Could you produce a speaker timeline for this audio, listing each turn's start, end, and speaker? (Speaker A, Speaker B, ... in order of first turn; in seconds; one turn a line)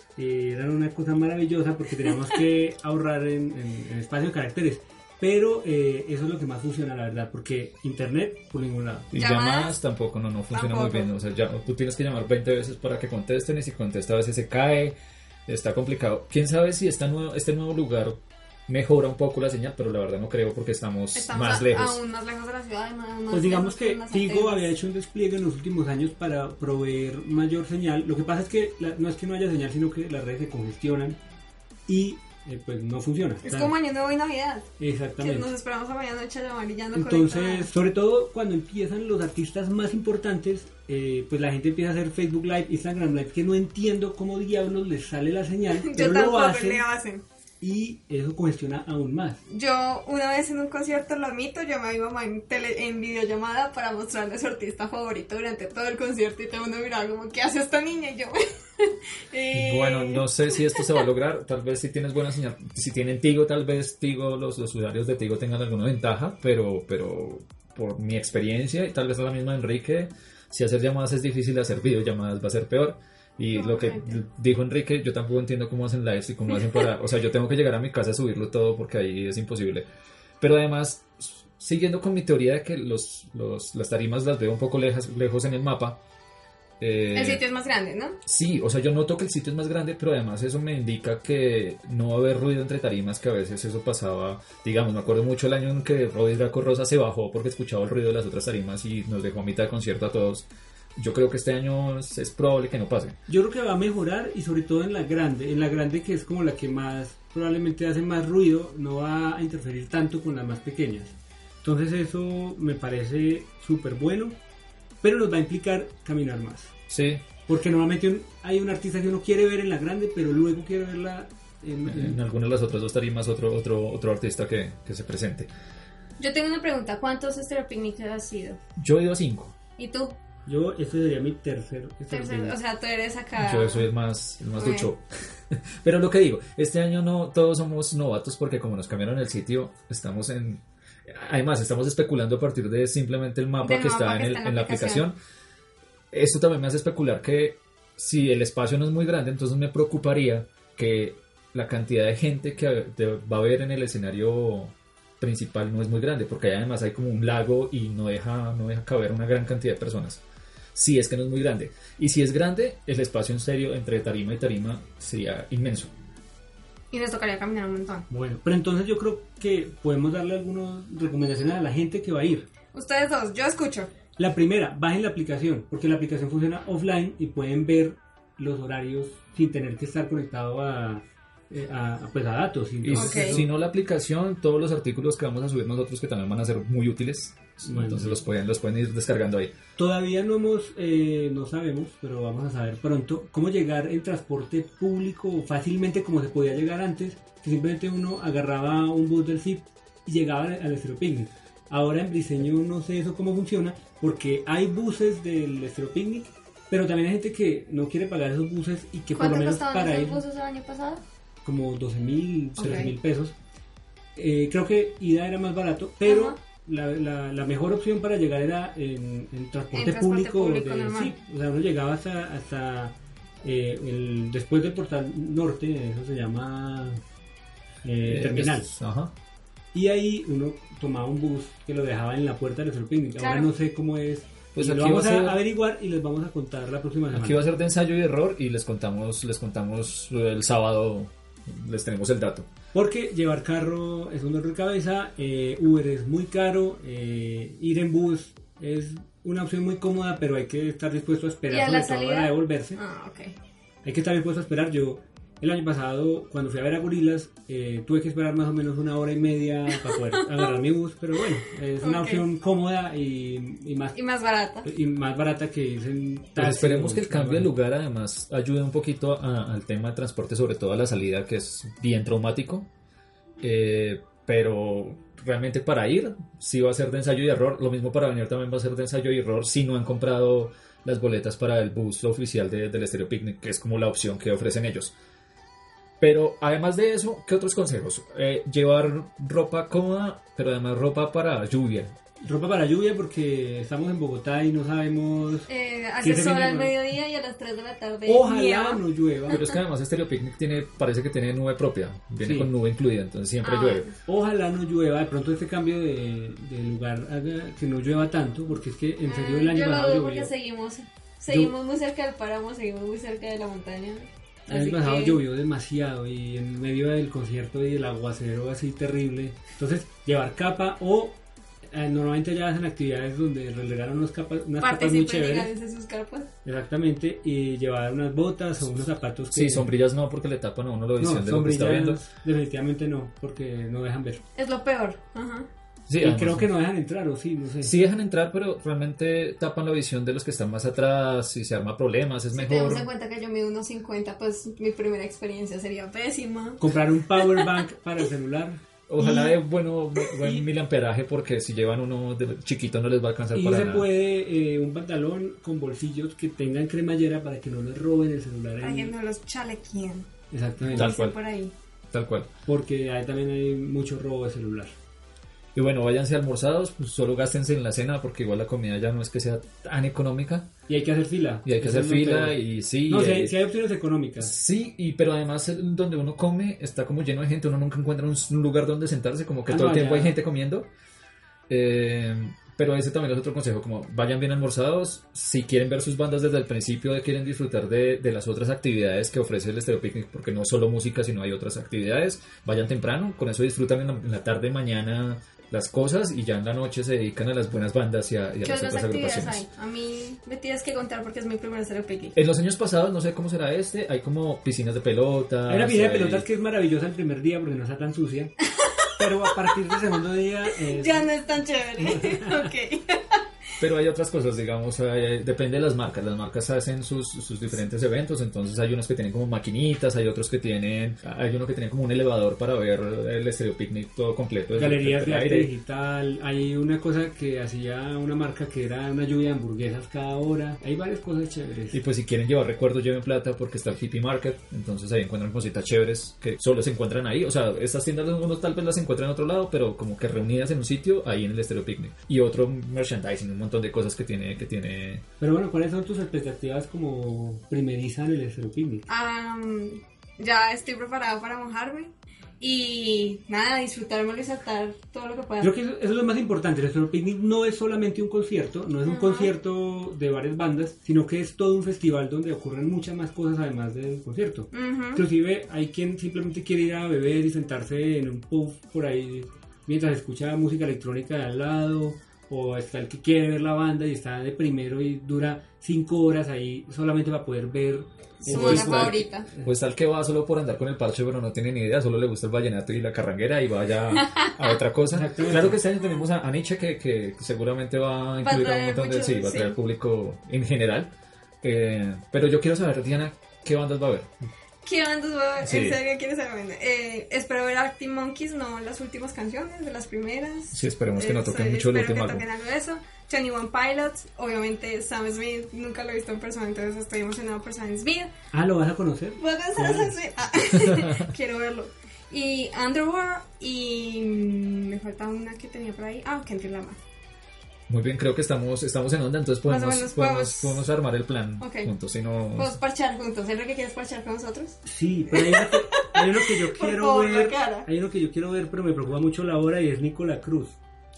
Speaker A: 0.2-9.1
Speaker B: 9.1-22.0
Speaker C: 9.1-9.8
Speaker C: 10.5-11.1
Speaker C: 21.1-24.6
Speaker A: 23.3-31.2
Speaker A: 31.9-33.8
Speaker C: 33.5-37.7
Speaker A: 34.8-35.5
Speaker A: 36.9-46.8
Speaker C: 45.8-47.2
Speaker A: 47.6-49.4
Speaker C: 49.5-61.1
Speaker B: 59.5-79.9
Speaker C: 73.5-74.2
Speaker B: 80.4-86.0
Speaker B: 86.8-87.4
Speaker C: 87.1-88.2
Speaker B: 88.3-103.2
Speaker A: 103.3-114.4
Speaker A: 115.0-116.7
Speaker B: 116.9-117.3
Speaker A: 117.5-122.2
Speaker B: 121.9-125.5
Speaker C: 126.2-128.6
Speaker B: 128.8-129.6
Speaker C: 129.8-130.2
Speaker A: 130.5-132.6
Speaker C: 132.1-133.9
Speaker B: 133.4-145.2
Speaker C: 134.6-134.9
Speaker C: 143.6-145.1
Speaker B: 146.1-165.9
Speaker C: 166.9-168.1
Speaker A: 168.1-172.5
Speaker C: 172.7-173.9
Speaker A: 174.2-183.5
Speaker B: 182.8-189.5
Speaker C: 182.9-183.5
Speaker A: 187.6-188.2
Speaker A: 189.8-210.2
Speaker C: 209.2-211.0
Speaker A: 211.4-213.4
Speaker C: 212.6-212.9
Speaker A: 214.2-227.0
Speaker C: 216.1-216.4
Speaker C: 219.7-221.2
Speaker A: 227.8-228.7
Speaker B: 228.1-229.2
Speaker A: 229.7-237.4
Speaker C: 233.2-233.5
Speaker B: 234.6-235.4
Speaker B: 237.1-242.5
Speaker A: 242.7-252.8
Speaker C: 251.5-253.3
Speaker A: 253.8-264.0
Speaker C: 259.9-260.5
Speaker C: 261.8-262.3
Speaker C: 263.9-264.7
Speaker A: 264.6-267.5
Speaker B: 266.4-272.7
Speaker B: 273.4-285.0
Speaker B: 286.0-291.9
Speaker A: 292.2-295.5
Speaker C: 295.5-299.6
Speaker A: 296.0-296.7
Speaker A: 298.1-299.4
Speaker B: 299.3-303.9
Speaker A: 302.2-302.5
Speaker C: 303.4-304.0
Speaker A: 304.1-310.3
Speaker C: 309.1-315.2
Speaker A: 311.3-311.5
Speaker A: 314.5-325.5
Speaker C: 324.6-326.3
Speaker A: 326.4-329.7
Speaker B: 329.3-332.0
Speaker A: 331.0-334.2
Speaker C: 334.4-335.5
Speaker B: 335.9-336.5
Speaker A: 336.0-337.7
Speaker B: 337.6-342.9
Speaker C: 342.3-346.6
Speaker A: 346.6-348.6
Speaker C: 347.2-347.5
Speaker B: 348.9-353.9
Speaker C: 349.0-349.4
Speaker C: 350.0-350.4
Speaker A: 353.3-358.9
Speaker C: 358.6-360.1
Speaker A: 360.3-360.9
Speaker B: 360.7-361.2
Speaker C: 360.7-361.5
Speaker B: 361.9-362.3
Speaker A: 362.5-364.8
Speaker B: 365.6-370.5
Speaker A: 370.7-374.3
Speaker B: 371.4-373.4
Speaker B: 374.2-380.7
Speaker A: 379.5-380.2
Speaker B: 381.5-399.5
Speaker C: 398.4-402.2
Speaker B: 402.1-406.3
Speaker A: 405.5-408.3
Speaker C: 408.5-409.0
Speaker A: 409.0-411.1
Speaker C: 410.6-413.2
Speaker A: 411.8-412.5
Speaker B: 413.6-425.5
Speaker A: 424.5-431.8
Speaker B: 431.7-445.1
Speaker A: 445.2-448.9
Speaker C: 448.9-455.5
Speaker A: 455.4-479.5
Speaker C: 458.9-459.3
Speaker C: 464.5-465.0
Speaker C: 478.2-479.3
Speaker B: 478.2-490.9
Speaker C: 484.0-484.6
Speaker A: 484.9-485.6
Speaker C: 488.2-489.6
Speaker B: 491.4-494.1
Speaker C: 494.6-508.1
Speaker B: 495.4-495.8
Speaker B: 500.5-502.2
Speaker A: 508.3-510.0
Speaker C: 509.2-516.8
Speaker B: 510.6-510.9
Speaker B: 517.7-522.6
Speaker C: 519.5-520.7
Speaker C: 521.4-521.7
Speaker C: 522.4-524.6
Speaker A: 524.6-530.6
Speaker C: 525.1-527.7